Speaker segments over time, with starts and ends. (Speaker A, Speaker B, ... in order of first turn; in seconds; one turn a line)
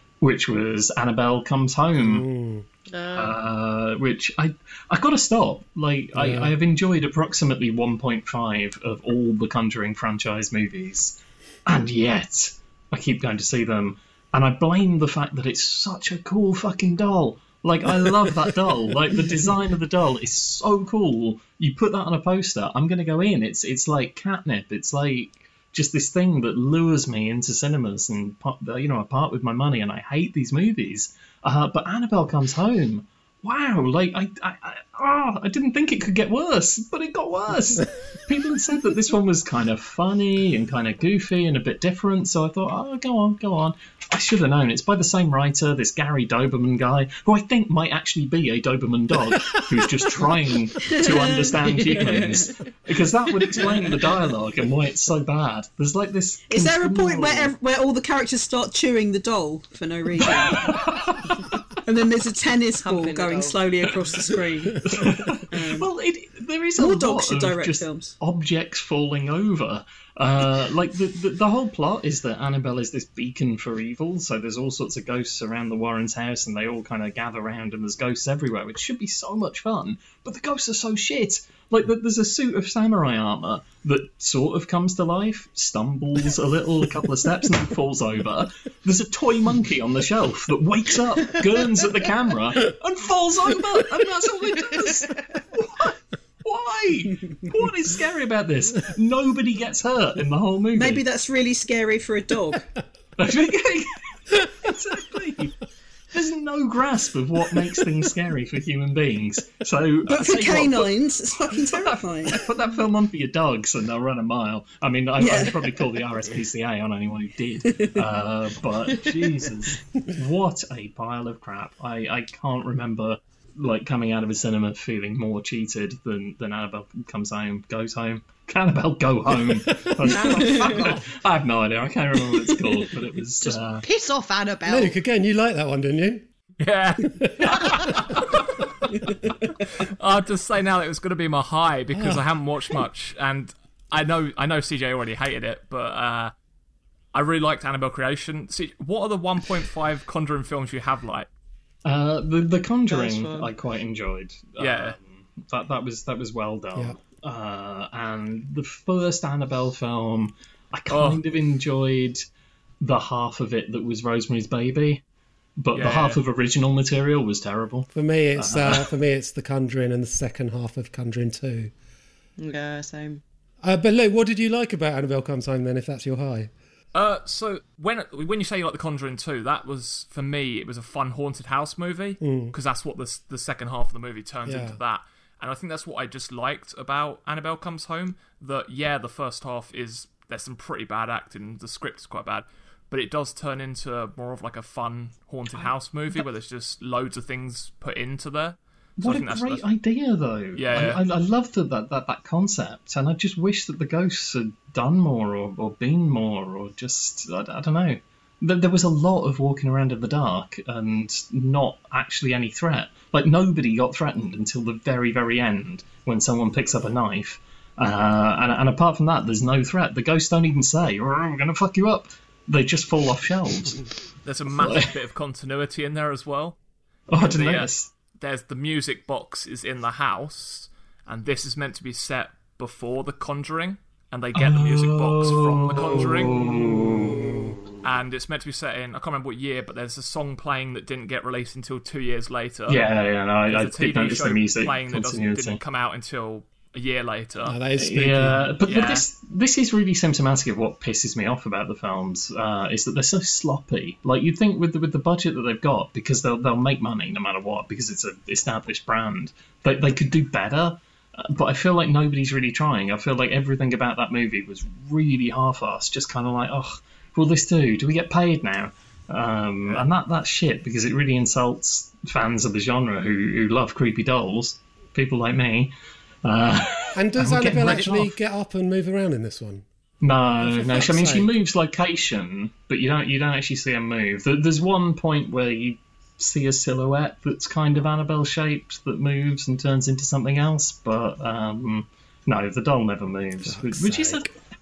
Speaker A: 0.2-2.2
Speaker B: 2.0-2.7
Speaker C: 2.9-3.4
Speaker A: 3.1-57.5
Speaker B: 6.2-6.5
Speaker D: 50.8-52.5
Speaker D: 56.5-60.7
Speaker A: 60.2-61.2
Speaker D: 61.9-64.8
Speaker C: 62.8-63.6
Speaker A: 64.8-101.0
Speaker D: 65.5-65.9
Speaker D: 66.8-68.1
Speaker D: 100.8-102.7
Speaker A: 103.2-105.5
Speaker A: 106.1-110.9
Speaker D: 110.1-112.4
Speaker A: 111.5-133.8
Speaker D: 115.2-115.6
Speaker C: 130.0-130.9
Speaker D: 130.3-130.8
Speaker C: 133.5-134.9
Speaker B: 134.7-136.3
Speaker E: 136.6-138.2
Speaker B: 137.1-137.7
Speaker E: 139.9-146.3
Speaker B: 141.9-142.2
Speaker E: 147.1-151.3
Speaker A: 151.8-162.3
Speaker C: 152.9-153.5
Speaker E: 154.6-155.0
Speaker E: 160.9-161.2
Speaker A: 162.8-165.0
Speaker A: 165.6-168.9
Speaker E: 165.7-166.2
Speaker B: 167.9-171.7
Speaker C: 172.4-173.2
Speaker B: 173.6-176.5
Speaker E: 176.9-199.6
Speaker B: 182.2-182.6
Speaker B: 184.5-184.8
Speaker A: 199.0-223.8
Speaker E: 200.6-201.0
Speaker E: 224.2-226.6
Speaker A: 224.6-224.9
Speaker A: 227.1-227.9
Speaker E: 227.2-236.4
Speaker A: 234.4-237.5
Speaker E: 237.8-242.8
Speaker A: 242.7-245.6
Speaker E: 243.5-247.6
Speaker B: 247.4-248.4
Speaker A: 247.8-275.7
Speaker E: 248.7-249.1
Speaker A: 276.2-278.1
Speaker B: 276.9-279.7
Speaker A: 280.0-294.3
Speaker B: 280.4-281.3
Speaker B: 293.4-294.3